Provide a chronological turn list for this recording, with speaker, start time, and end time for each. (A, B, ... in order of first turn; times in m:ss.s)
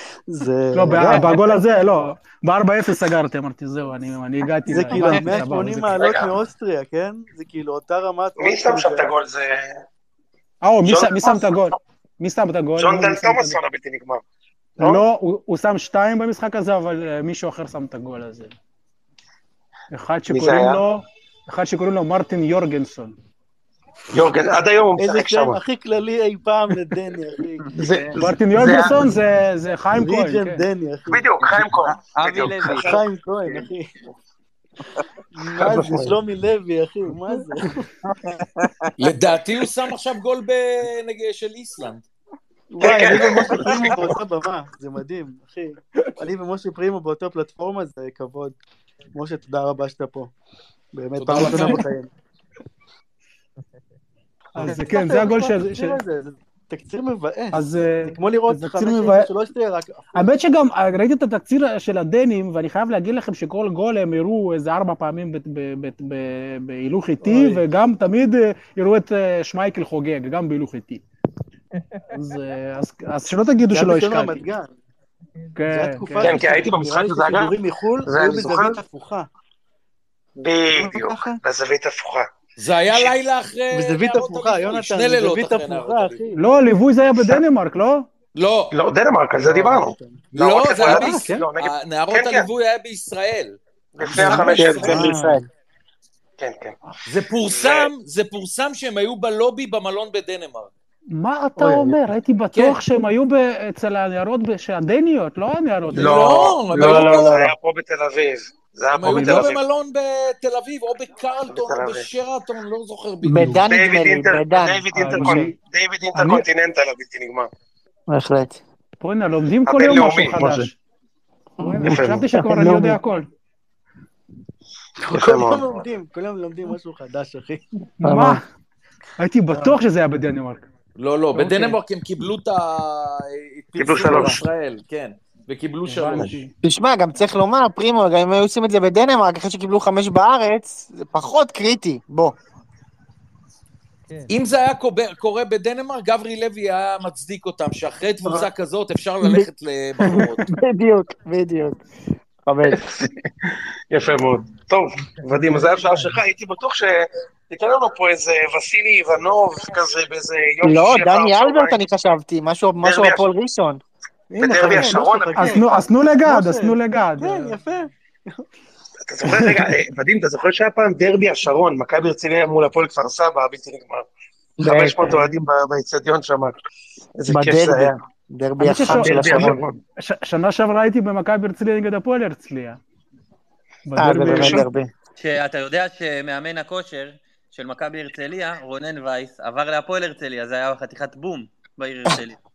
0:00.3-0:01.6 A
0:00.7-0:06.1 B
0:04.7-0:09.1 A
0:05.9-0:06.3 C
0:08.4-0:09.8 C
0:10.6-0:13.6 B
0:10.9-0:11.7 C
0:12.8-0:14.2 C
0:14.8-0:15.0 C
0:14.8-0:18.6 B
0:19.9-0:23.2 B
0:20.3-0:20.8 C
0:24.1-0:25.6 C
0:25.0-0:27.7 A
0:27.8-0:29.0 C
0:27.8-0:28.2 D
0:28.2-0:30.7 B
0:30.0-0:31.9 A
0:31.1-0:33.6 C
0:32.2-0:32.9 D
0:32.7-0:33.9 A
0:35.4-0:37.9 A
0:35.5-0:36.2 C
0:38.4-0:38.9 D
0:39.0-0:42.0 E
0:42.7-0:48.6 A
0:42.8-0:44.2 C
0:49.2-0:50.3 A
0:50.9-0:52.1 A
0:51.2-0:51.8 E
0:54.6-0:56.0 B
0:54.6-1:00.3 A
0:57.5-0:59.3 B
1:00.2-1:11.0 B
1:07.2-1:07.6 A
1:12.1-1:14.4 B
1:13.7-1:14.7 A
1:15.6-1:16.4 B
1:15.7-1:19.3 A
1:16.2-1:18.8 C
1:20.4-1:22.3 C
1:20.7-1:21.4 A
1:22.6-1:26.2 E
1:22.9-1:23.2 C
1:23.7-1:26.4 A
1:26.4-1:28.1 B
1:28.4-1:28.7 E
1:28.7-1:32.5 C
1:29.4-1:30.2 A
1:30.3-1:35.0 E
1:30.8-1:31.5 A
1:34.0-1:35.2 C
1:34.2-1:35.4 A
1:34.5-1:35.4 F
1:36.4-1:36.8 C
1:37.1-1:40.7 E
1:37.5-1:37.9 C
1:41.1-1:46.3 B
1:41.6-1:42.0 A
1:42.5-1:42.8 E
1:45.9-1:47.5 E
1:45.9-1:49.6 C
1:48.9-1:53.5 E
1:49.2-1:49.4 A
1:51.5-1:52.1 C
1:53.2-1:55.5 F
1:53.4-1:53.6 A
1:53.7-1:57.5 C
1:54.9-1:55.6 B
1:56.2-1:56.4 B
1:58.1-1:58.6 F
1:59.0-2:00.8 B
1:59.7-2:00.7 C
2:01.6-2:03.0 F
2:01.6-2:03.3 B
2:01.8-2:02.2 C
2:05.0-2:07.6 A
2:05.1-2:05.8 C
2:08.0-2:08.4 B
2:08.0-2:08.4 F
2:09.2-2:10.7 B
2:09.5-2:09.8 A
2:11.0-2:16.4 E
2:11.4-2:11.8 B
2:13.8-2:14.4 C
2:13.8-2:14.4 A
2:15.9-2:16.5 B
2:16.6-2:22.4 F
2:24.3-2:30.4 E
2:29.2-2:29.5 F
2:30.2-2:31.8 F
2:32.4-2:32.8 F
2:32.7-2:33.1 C
2:33.9-2:41.8 C
2:40.6-2:43.8 F
2:42.8-2:43.2 C
2:44.3-2:48.5 A
2:44.4-2:45.6 C
2:44.6-2:47.6 B
2:49.0-2:54.0 C
2:49.3-2:49.6 B
2:54.6-2:55.3 F
2:54.6-2:56.6 C
2:57.2-2:58.0 C
2:57.3-2:59.6 F
2:58.6-3:02.8 B
2:58.8-2:59.8 C
3:03.8-3:04.7 B
3:04.0-3:04.9 F
3:04.3-3:04.6 C
3:05.2-3:12.4 D